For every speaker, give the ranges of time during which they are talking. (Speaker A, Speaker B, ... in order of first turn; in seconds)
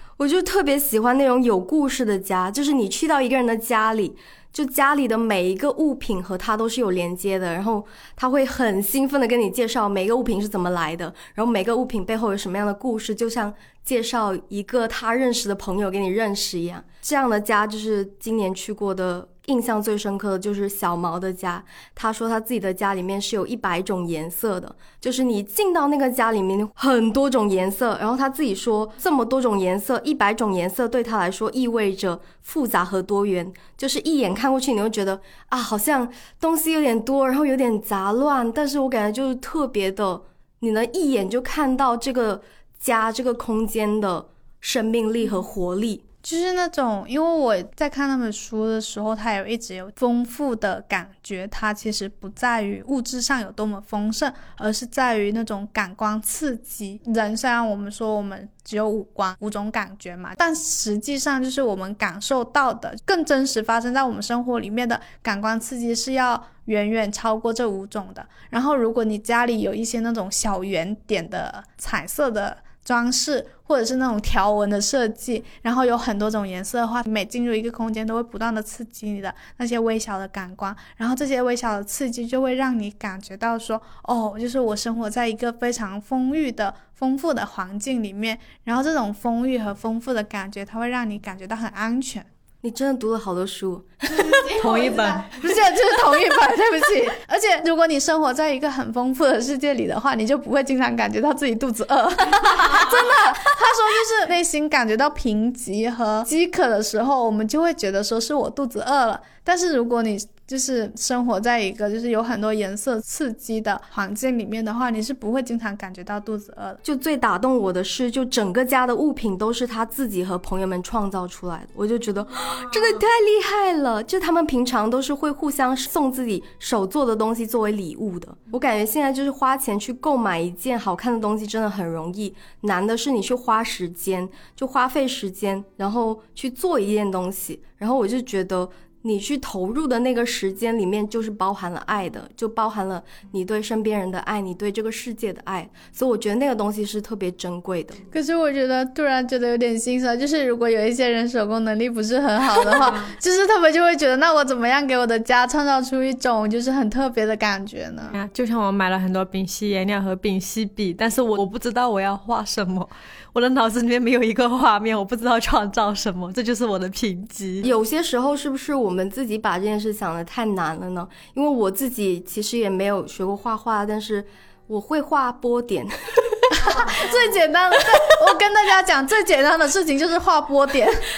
Speaker A: 0.2-46.0, 92.6-94.4, 116.8-148.0, 167.6-177.0
Speaker B: 46.2-92.3, 94.3-116.8, 148.1-158.1, 176.5-181.1
Speaker C: 94.5-95.4, 158.1-167.7